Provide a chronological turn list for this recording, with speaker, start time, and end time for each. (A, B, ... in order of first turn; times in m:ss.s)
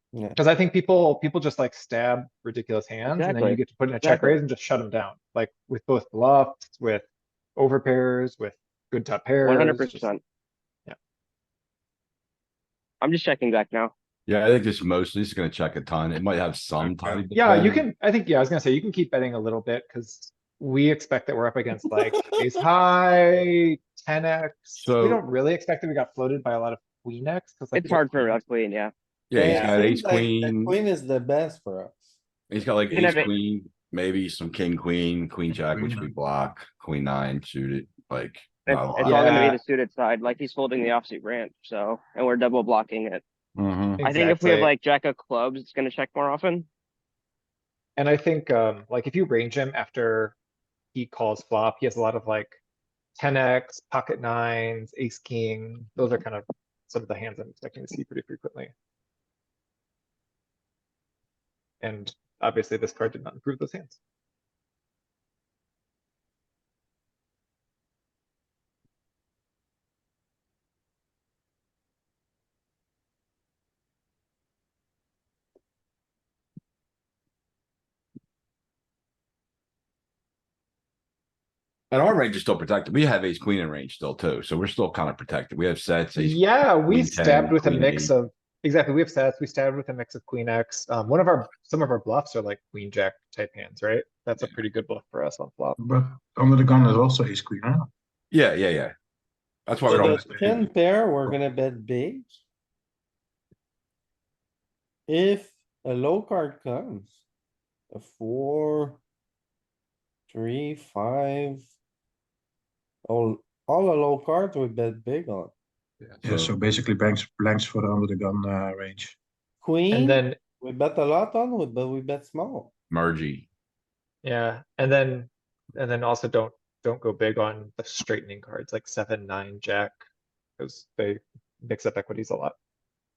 0:00.1-0:00.4 A
0:00.4-0:07.0 B
0:03.1-0:04.4 C
0:07.6-0:10.1 B
0:09.4-0:10.2 C
0:13.0-0:13.9 C
0:14.3-0:17.8 D
0:16.8-0:17.2 E
0:17.3-0:28.4 B
0:24.8-0:25.2 D
0:27.7-0:28.9 C
0:29.3-0:30.8 D
0:29.3-0:32.2 A
0:29.5-0:29.8 B
0:32.5-0:39.2 D
0:32.9-0:33.3 C
0:35.6-0:36.1 E
0:38.7-0:43.2 C
0:39.0-0:39.6 B
0:43.6-0:44.0 E
0:44.0-0:44.7 B
0:44.0-0:46.7 C
0:48.0-0:50.4 B
0:50.9-0:52.6 B
0:53.2-0:58.7 B
1:01.8-1:04.0 B
1:21.9-1:28.1 D
1:26.2-1:35.8 B
1:35.8-1:37.9 E
1:38.3-1:38.9 D
1:39.7-1:40.6 D
1:39.9-1:42.4 A
1:39.9-1:40.5 E
1:45.1-1:47.2 A
1:47.9-1:49.0 A
1:50.3-1:51.6 A
1:53.1-1:55.5 A
1:56.2-1:56.6 D
1:56.2-1:59.2 E
1:59.6-2:02.7 A
1:59.9-2:00.4 B
2:02.9-2:03.5 D
2:04.2-2:10.0 B
2:10.6-2:12.6 B